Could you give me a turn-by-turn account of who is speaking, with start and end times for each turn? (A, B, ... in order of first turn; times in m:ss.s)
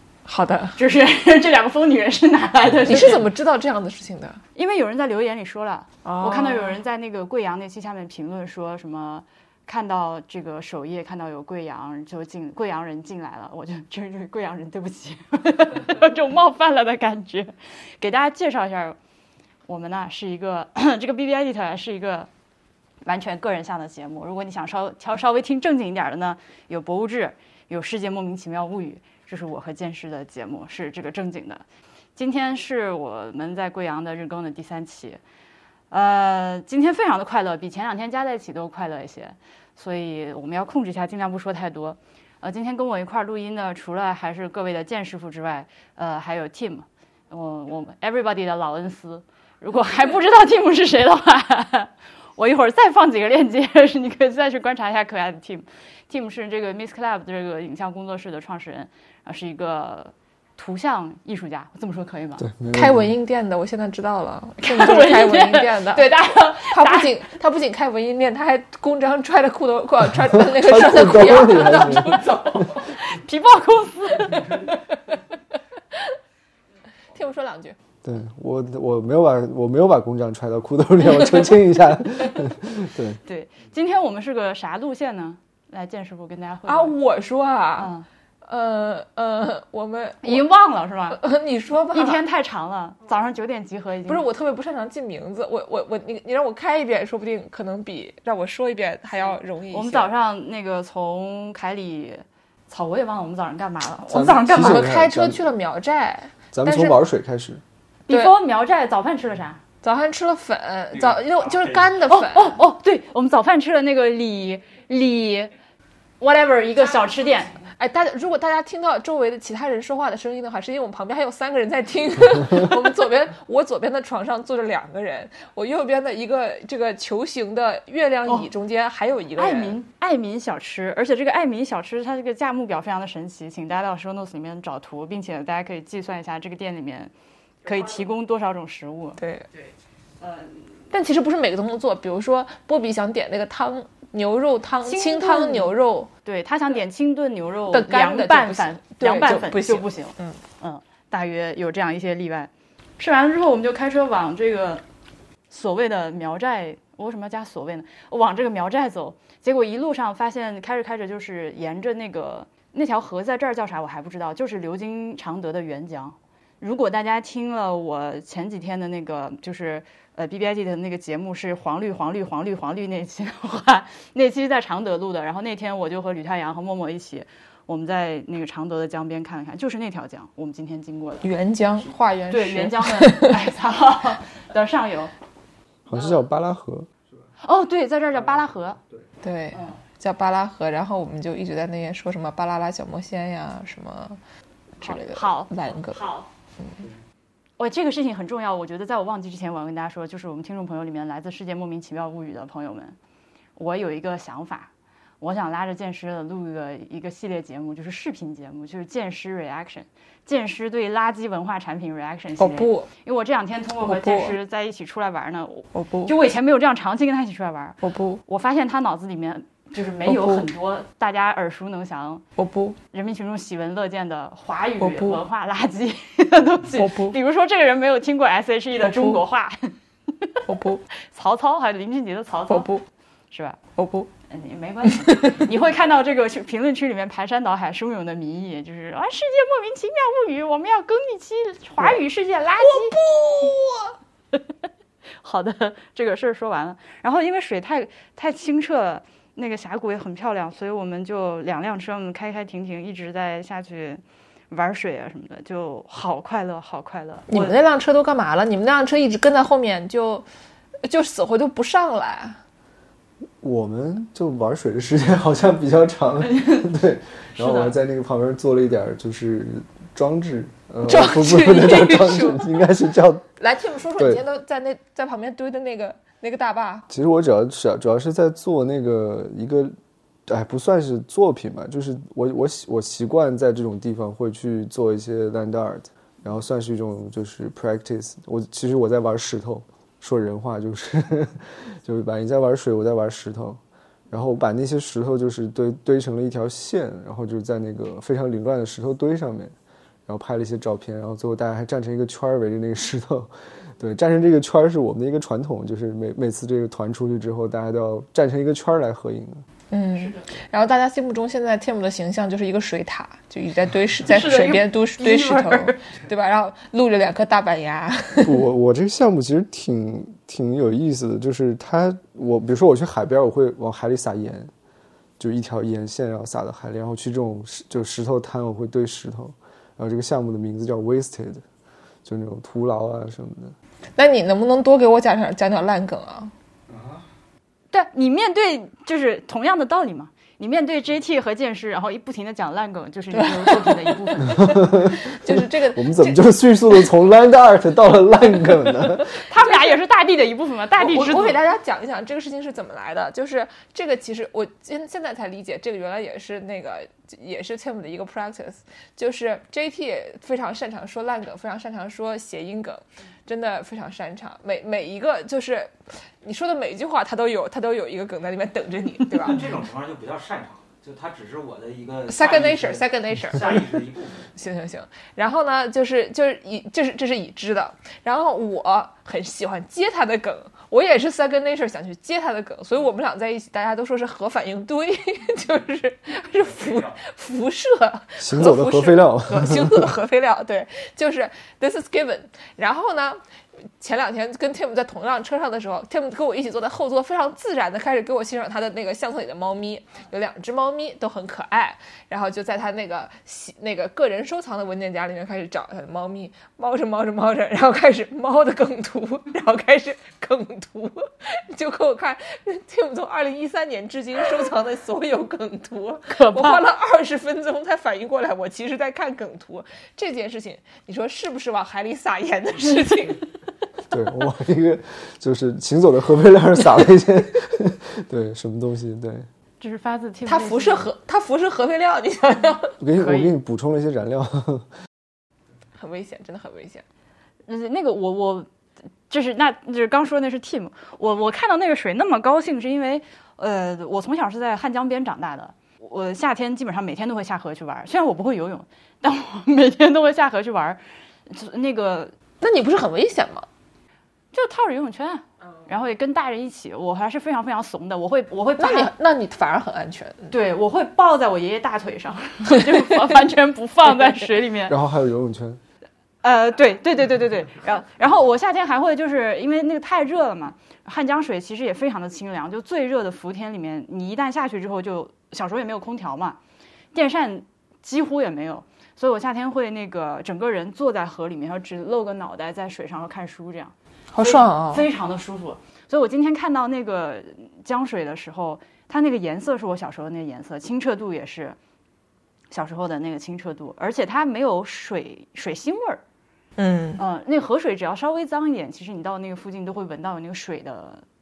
0:00.3-0:00.8 A
0:00.7-0:03.3 B
0:02.8-0:04.4 A
0:04.5-0:19.0 B
0:06.0-0:06.8 A
0:19.7-0:22.3 B
0:23.0-0:31.6 B
0:32.2-0:35.2 B
0:35.9-1:02.4 B
1:02.4-1:03.1 C
1:02.7-1:12.7 A
1:04.6-1:07.2 B
1:10.3-1:12.2 C
1:11.3-1:14.9 B
1:17.1-1:17.8 A
1:18.0-1:23.2 C
1:23.2-1:26.9 B
1:26.7-1:27.9 A
1:27.8-1:28.1 B
1:28.4-1:30.4 A
1:30.2-1:31.2 B
1:31.1-1:32.2 A
1:31.9-1:34.2 B
1:34.1-1:40.1 A
1:39.7-1:44.9 B
1:44.1-1:45.4 C
1:44.5-1:47.0 A
1:46.5-1:47.6 C
1:48.1-1:49.6 B
1:48.1-1:48.3 A
1:49.8-1:52.6 A
1:50.9-1:52.0 D
1:52.1-1:55.5 B
1:56.2-1:57.6 B
1:57.7-2:09.8 A
2:09.4-2:17.1 B
2:17.6-2:19.2 B
2:19.2-2:19.5 A
2:20.2-2:20.5 B
2:20.9-2:26.1 A
2:24.8-2:34.8 B
2:27.7-2:30.4 A
2:35.5-3:01.3 B
3:01.2-3:03.4 A
3:02.3-3:05.1 B
3:05.9-3:06.9 C
3:07.4-3:08.8 B
3:08.2-3:09.1 D
3:09.2-3:14.2 A
3:09.5-3:09.8 B
3:14.8-3:16.0 A
3:14.8-3:16.3 B
3:17.6-3:23.0 B
3:23.6-3:42.2 B
3:32.4-3:32.9 A
3:33.8-3:34.3 A
3:35.7-3:36.1 A
3:37.8-3:38.2 A
3:40.0-3:40.5 A
3:42.4-3:42.8 A
3:42.9-3:50.4 B
3:44.8-3:45.2 A
3:46.7-3:47.1 A
3:48.8-3:49.2 A
3:50.4-3:50.8 A
3:51.0-3:52.7 B
3:52.5-3:52.8 A
3:53.3-3:53.6 B
3:53.8-3:54.1 A
3:54.3-4:03.0 B
3:55.1-3:55.4 A
4:02.6-4:03.9 A
4:05.2-4:17.6 B
4:17.3-4:20.2 A
4:20.8-4:22.4 A
4:23.4-4:33.2 C
4:26.2-4:26.7 B
4:27.3-4:27.8 B
4:30.8-4:32.6 A
4:33.4-4:36.9 A
4:34.0-4:34.2 C
4:36.9-4:39.7 C
4:40.3-4:59.5 C
5:00.1-5:09.4 C
5:09.7-5:18.4 A
5:14.0-5:15.8 B
5:18.2-5:24.5 C
5:25.2-5:31.4 C
5:32.0-5:33.5 C
5:34.0-5:36.3 A
5:36.7-5:37.0 D
5:37.7-5:44.5 B
5:43.3-5:46.8 A
5:44.2-5:49.1 C
5:49.2-5:51.4 B
5:49.4-5:49.8 A
5:50.8-6:09.4 A
6:09.2-6:14.3 D
6:12.1-6:13.8 A
6:14.4-6:33.2 A
6:26.4-6:26.9 D
6:28.2-6:29.9 C
6:33.8-7:03.2 A
6:56.1-6:56.6 B
7:02.7-7:03.0 B
7:03.9-7:09.3 C
7:09.6-7:10.9 B
7:10.2-7:12.8 A
7:12.8-7:14.7 C
7:13.0-7:13.3 B
7:15.8-7:16.8 A
7:17.4-7:18.5 B
7:19.1-7:32.1 B
7:32.4-7:33.4 A
7:34.3-7:38.9 B
7:38.6-7:40.3 A
7:40.3-7:44.8 B
7:44.7-7:45.6 C
7:46.2-7:56.4 B
7:56.9-8:11.6 B
8:04.1-8:04.8 A
8:12.5-8:16.0 B
8:16.6-8:17.0 A
8:17.0-8:21.0 B